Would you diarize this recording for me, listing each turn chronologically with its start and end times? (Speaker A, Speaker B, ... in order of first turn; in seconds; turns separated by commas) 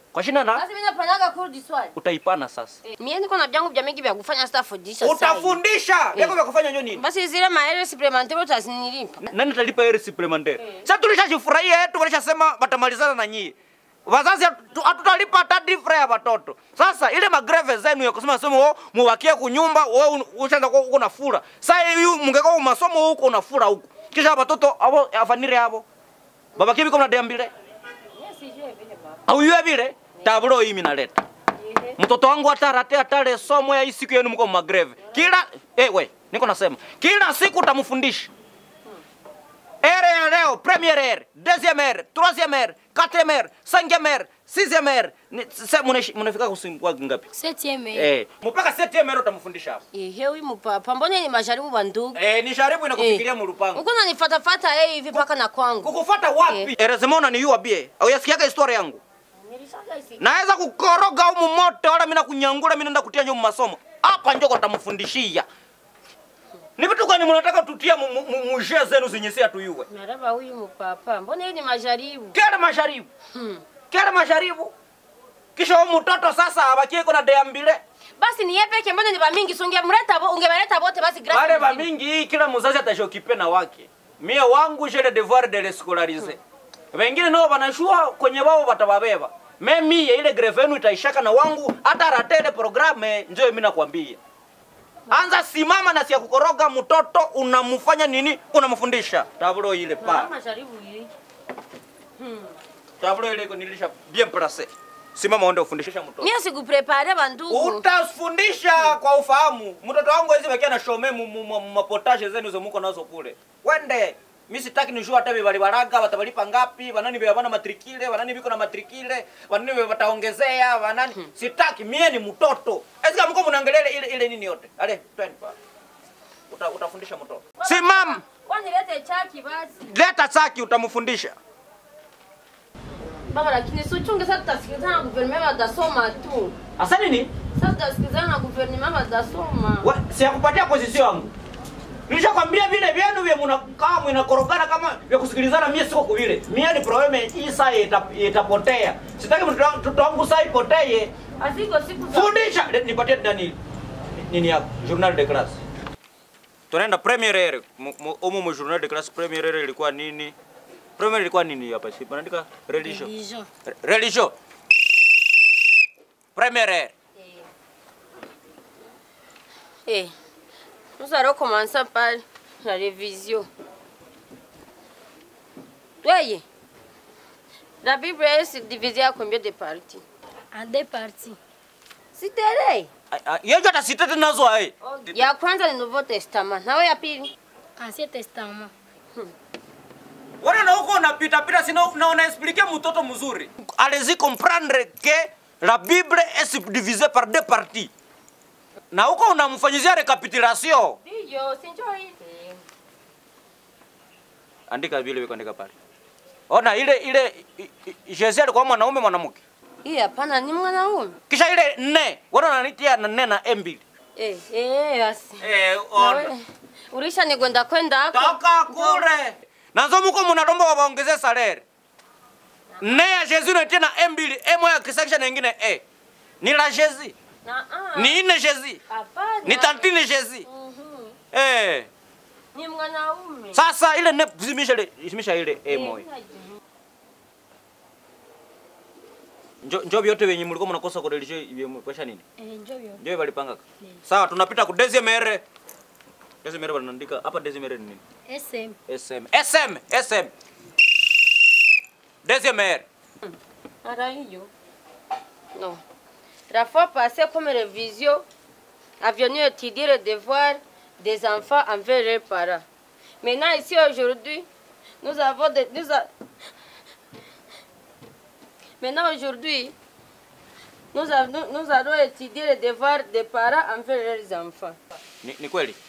Speaker A: 0.1-0.6, Speaker B: 0.5-1.9, Speaker A: 1.9-2.8, Speaker B: 2.9-5.6, Speaker A: 5.0-7.0, Speaker B: 6.9-9.3, Speaker A: 9.2-13.5, Speaker A: 14.1-25.8, Speaker A: 26.6-27.5, Speaker B: 28.1-29.2, Speaker A: 29.3-31.2, Speaker B: 31.6-32.0, Speaker A: 32.0-38.3, Speaker B: 35.0-35.3, Speaker A: 39.8-47.2, Speaker C: 47.3-48.1, Speaker A: 47.9-49.8, Speaker B: 49.9-52.2, Speaker A: 52.1-53.8, Speaker B: 52.9-55.9, Speaker A: 55.8-59.0, Speaker B: 59.4-60.3, Speaker A: 60.2-65.5, Speaker A: 66.8-69.9, Speaker B: 69.9-72.4, Speaker A: 72.3-73.1, Speaker B: 73.3-73.6, Speaker A: 73.9-74.7, Speaker A: 75.5-77.8, Speaker B: 78.2-81.9, Speaker A: 81.3-86.4, Speaker A: 86.9-94.2, Speaker A: 95.1-100.3, Speaker B: 100.0-101.1, Speaker B: 102.2-102.5, Speaker A: 103.0-106.3, Speaker B: 106.2-107.8, Speaker A: 107.5-125.5, Speaker A: 126.5-128.2, Speaker B: 127.6-129.9, Speaker A: 129.8-131.4, Speaker B: 133.3-136.6, Speaker A: 136.8-137.3, Speaker B: 137.5-139.9, Speaker A: 139.8-141.3, Speaker A: 142.1-151.1, Speaker B: 151.4-152.4, Speaker A: 152.1-153.6, Speaker A: 154.1-155.6, Speaker A: 156.7-160.3, Speaker A: 161.0-163.1, Speaker C: 162.8-163.5, Speaker A: 163.7-164.3, Speaker A: 166.3-166.9, Speaker B: 169.9-170.1, Speaker B: 171.0-173.5, Speaker B: 176.0-176.4, Speaker B: 177.8-180.0, Speaker C: 180.5-181.4, Speaker B: 182.1-182.9, Speaker A: 183.1-184.7, Speaker B: 184.8-187.3, Speaker C: 187.8-188.7, Speaker A: 190.4-197.9, Speaker A: 198.9-201.0, Speaker B: 201.0-202.6, Speaker A: 204.7-205.7, Speaker A: 206.5-209.4, Speaker B: 209.8-211.2, Speaker A: 211.3-213.8, Speaker B: 214.2-219.1, Speaker A: 215.4-216.3, Speaker A: 218.1-221.6, Speaker A: 222.8-225.8, Speaker A: 226.4-227.1, Speaker B: 227.4-228.2, Speaker A: 227.9-228.8, Speaker B: 228.9-229.9, Speaker A: 229.4-230.4, Speaker B: 230.5-231.2, Speaker A: 231.3-231.9, Speaker B: 232.5-233.6, Speaker A: 233.5-236.1, Speaker B: 235.7-236.6, Speaker A: 239.6-242.2, Speaker C: 242.4-243.0, Speaker A: 243.0-245.4, Speaker A: 246.4-248.0, Speaker C: 248.3-248.8, Speaker A: 248.9-250.3, Speaker A: 252.2-252.8, Speaker B: 253.2-254.5, Speaker B: 255.5-255.8, Speaker B: 256.5-258.3, Speaker B: 259.0-262.6, Speaker B: 263.2-264.5, Speaker B: 265.0-266.1, Speaker B: 268.8-269.8, Speaker B: 270.9-274.8, Speaker A: 275.2-275.8